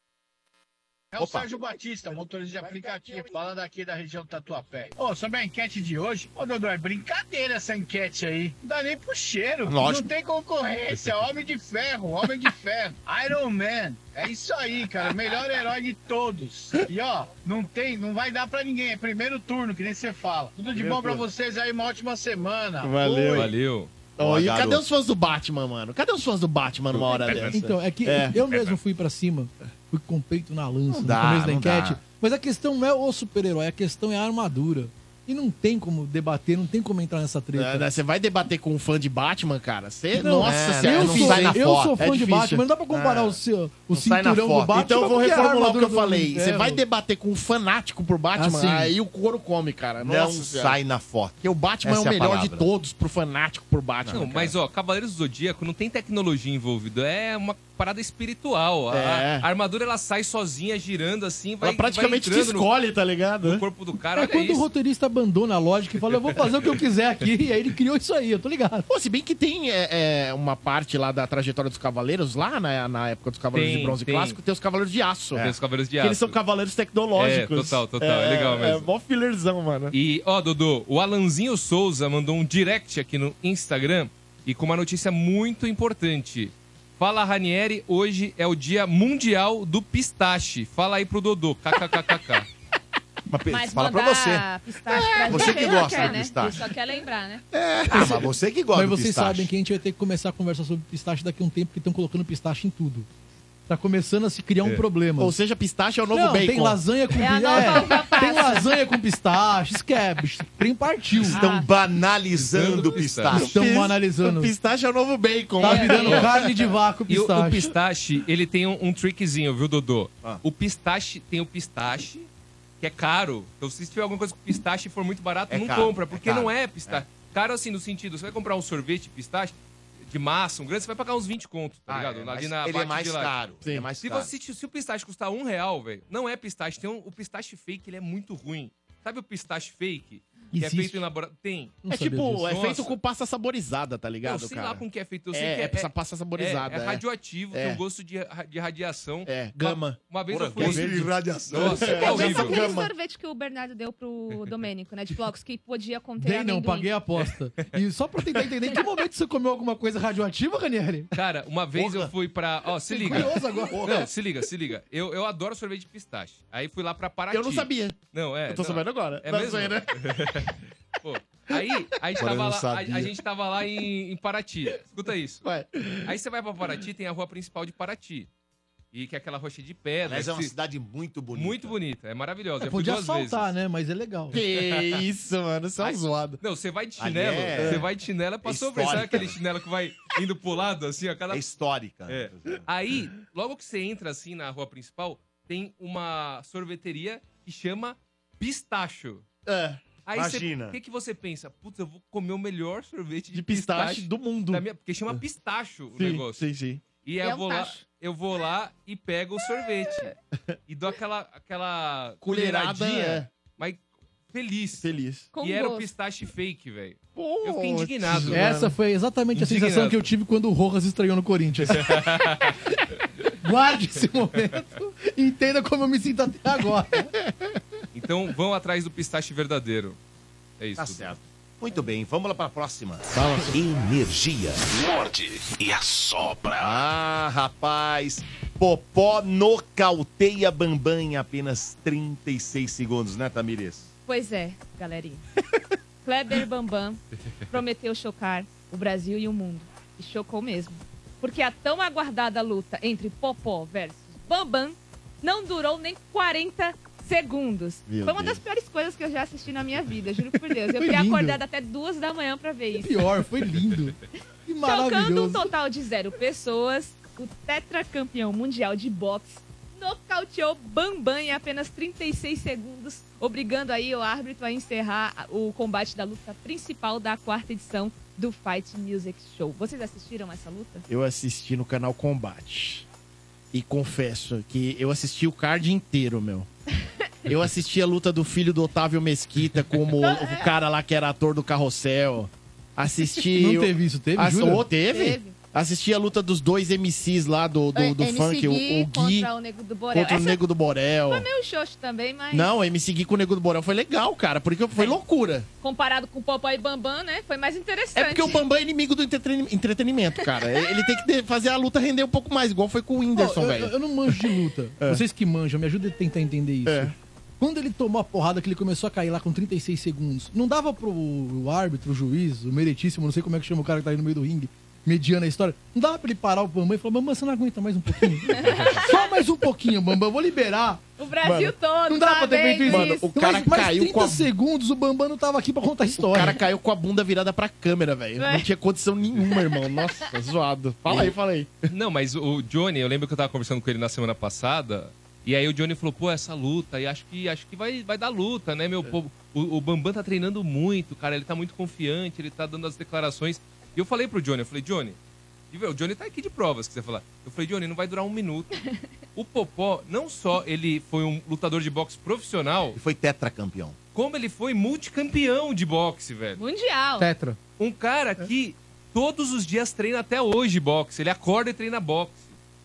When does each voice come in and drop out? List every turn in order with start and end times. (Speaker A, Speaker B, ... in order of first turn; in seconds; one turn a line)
Speaker A: 1.1-23.5
Speaker B: 1.2-1.5
Speaker B: 9.7-10.1
Speaker C: 10.9-11.2
Speaker D: 20.7-21.2
Speaker D: 22.8-23.5
Speaker C: 23.3-23.9
Speaker B: 24.2-24.8
Speaker D: 24.2-28.4
Speaker C: 26.9-27.7
Speaker E: 27.1-27.4
Speaker F: 27.5-37.9
Speaker C: 28.5-28.8
Speaker B: 30.9-32.0
Speaker D: 37.5-43.4
Speaker F: 40.1-46.8
Speaker B: 40.4-42.0
Speaker B: 44.0-44.9
Speaker D: 44.1-50.8
Speaker F: 48.4-48.9
Speaker B: 50.0-52.7
Speaker D: 51.4-54.5
Speaker B: 54.0-54.5
Speaker C: 54.1-62.7
Speaker D: 58.9-59.5
Speaker D: 61.6-63.6
Speaker C: 63.4-64.6
Speaker F: 64.2-68.9
Speaker C: 66.1-66.6
Speaker D: 68.9-80.0
Speaker C: 73.5-74.4
Speaker C: 75.3-76.4
Speaker C: 77.2-78.9
Speaker C: 79.9-92.5
Speaker B: 93.3-94.5
Speaker E: 93.5-97.4
Speaker D: 94.9-96.0
Speaker B: 95.3-96.7
Speaker D: 97.5-98.2
Speaker B: 97.8-99.5
Speaker F: 98.7-103.1
Speaker F: 103.7-105.3
Speaker D: 105.2-106.8
Speaker F: 106.1-111.4
Speaker E: 107.1-108.7
Speaker E: 111.2-111.7
Speaker B: 111.3-113.5
Speaker C: 112.4-113.6
Speaker D: 113.3-116.4
Speaker F: 113.4-114.5
Speaker F: 115.6-117.7
Speaker E: 115.6-116.3
Speaker C: 116.0-116.3
Speaker C: 117.1-122.3
Speaker C: 122.8-129.5
Speaker B: 125.5-127.0
Speaker C: 130.1-133.3
Speaker B: 131.9-134.3
Speaker C: 134.0-141.8
Speaker F: 140.5-141.0
Speaker F: 141.8-142.5
Speaker D: 141.9-147.8
Speaker C: 142.5-143.0
Speaker C: 144.2-152.7
Speaker D: 149.3-150.0
Speaker B: 150.3-152.6
Speaker D: 150.6-152.9
Speaker E: 151.9-156.9
Speaker F: 156.2-161.1
Speaker C: 161.1-175.4
Speaker D: 161.8-162.1
Speaker F: 162.9-163.8
Speaker D: 163.1-164.1
Speaker D: 167.3-168.0
Speaker D: 168.5-170.2
Speaker D: 172.2-173.1
Speaker B: 172.2-172.7
Speaker D: 175.4-176.1
Speaker C: 176.1-178.3
Speaker C: 178.9-180.5
Speaker B: 180.1-181.8
Speaker C: 181.3-183.5
Speaker F: 182.6-184.4
Speaker D: 184.3-186.4
Speaker C: 184.4-185.0
Speaker C: 185.8-191.4
Speaker B: 187.0-187.9
Speaker D: 187.6-187.9
Speaker B: 188.4-189.4
Speaker D: 188.9-189.3
Speaker B: 191.3-192.6
Speaker C: 192.1-199.2
Speaker D: 199.5-199.8
Speaker C: 200.1-206.4
Speaker B: 200.1-200.8
Speaker D: 203.3-205.2
Speaker D: 205.9-206.8
Speaker C: 207.0-210.1
Speaker E: 207.2-207.8
Speaker C: 210.7-218.5
Speaker D: 212.2-213.3
Speaker D: 214.8-215.3
Speaker E: 215.3-215.9
Speaker D: 217.2-218.7
Speaker F: 218.2-222.1
Speaker C: 219.3-220.0
Speaker C: 221.7-222.6
Speaker F: 223.4-227.1
Speaker D: 227.3-227.6
Speaker C: 227.9-230.0
Speaker C: 230.6-231.1
Speaker B: 230.8-234.6
Speaker D: 233.1-233.6
Speaker G: 234.7-236.8
Speaker B: 236.6-243.9
Speaker E: 244.1-245.2
Speaker E: 246.0-263.2
Speaker D: 257.9-258.4
Speaker F: 260.8-261.4
Speaker F: 262.8-265.5
Speaker E: 264.6-280.9
Speaker D: 280.9-282.9
Speaker D: 283.5-286.5
Speaker D: 287.3-299.3
Speaker E: 290.0-290.5
Speaker F: 293.3-294.7
Speaker E: 294.8-295.4
Speaker E: 297.7-300.4
Speaker D: 299.9-301.3
Speaker E: 301.1-302.5
Speaker D: 302.3-305.5
Speaker E: 305.6-308.4
Speaker D: 307.9-314.2
Speaker E: 310.2-310.9
Speaker F: 313.1-330.8
Speaker D: 316.7-316.9
Speaker E: 328.3-329.1
Speaker E: 331.0-333.1
Speaker D: 331.2-331.5
Speaker F: 331.9-336.4
Speaker D: 332.7-334.3
Speaker D: 336.0-341.5
Speaker E: 338.2-338.5
Speaker E: 339.5-339.8
Speaker C: 340.9-341.1
Speaker C: 341.7-355.0
Speaker C: 355.5-358.5
Speaker C: 359.1-362.8
Speaker B: 362.8-363.8
Speaker C: 363.9-366.4
Speaker E: 366.4-367.1
Speaker F: 367.0-367.4
Speaker C: 367.6-372.4